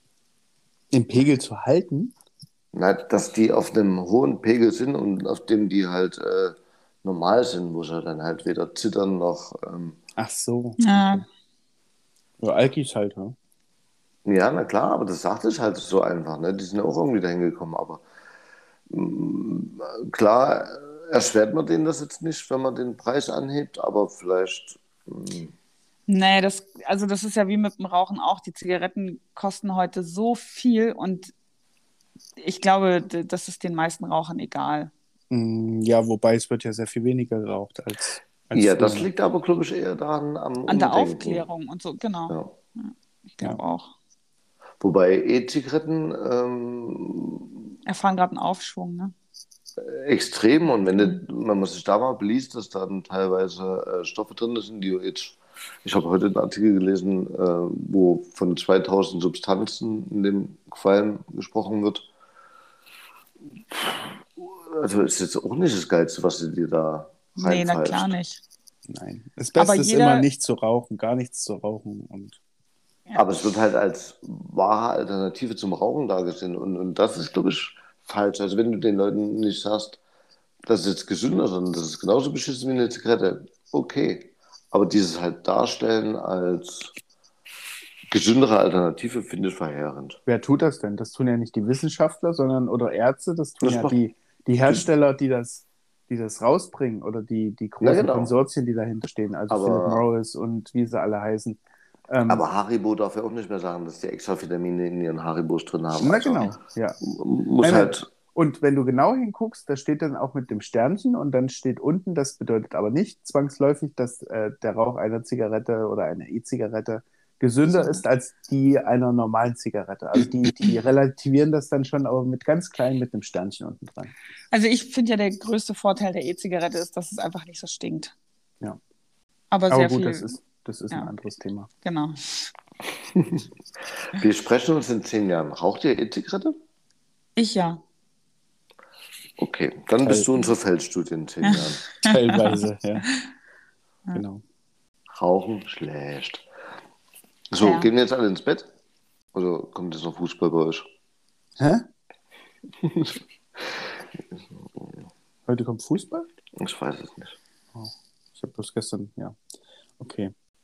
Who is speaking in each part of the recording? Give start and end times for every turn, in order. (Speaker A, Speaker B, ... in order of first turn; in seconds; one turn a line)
Speaker A: 0.9-2.1
Speaker B: 2.7-10.0
Speaker A: 10.2-11.2
Speaker C: 10.8-11.2
Speaker A: 12.4-13.3
Speaker B: 14.2-18.0
Speaker B: 18.9-25.5
Speaker C: 26.1-31.3
Speaker C: 32.4-34.9
Speaker A: 35.3-39.1
Speaker B: 38.5-41.5
Speaker C: 40.7-43.9
Speaker B: 42.3-42.5
Speaker B: 44.8-47.5
Speaker C: 47.9-49.1
Speaker B: 49.8-62.1
Speaker B: 63.7-68.1
Speaker C: 67.3-68.4
Speaker A: 68.9-72.4
Speaker C: 69.5-70.3
Speaker B: 73.1-80.0
Speaker B: 80.6-86.9
Speaker B: 88.1-90.2
Speaker A: 90.2-102.4
Speaker B: 93.6-94.0
Speaker B: 97.8-98.4
Speaker B: 99.5-100.1
Speaker B: 102.3-108.1
Speaker A: 106.0-107.0
Speaker A: 107.6-124.1
Speaker C: 117.8-118.0
Speaker C: 124.5-128.1
Speaker C: 129.5-130.3
Speaker A: 129.7-131.7
Speaker C: 131.8-132.2
Speaker B: 133.1-133.4
Speaker B: 134.1-136.5
Speaker C: 137.3-137.8
Speaker B: 139.4-141.8
Speaker C: 141.4-142.6
Speaker A: 142.0-143.1
Speaker A: 144.1-144.4
Speaker B: 145.1-146.5
Speaker B: 147.5-148.7
Speaker C: 147.6-147.9
Speaker B: 149.3-150.9
Speaker A: 151.6-151.8
Speaker B: 152.8-155.0
Speaker A: 155.5-156.3
Speaker B: 156.6-157.4
Speaker A: 157.7-159.4
Speaker A: 160.0-160.3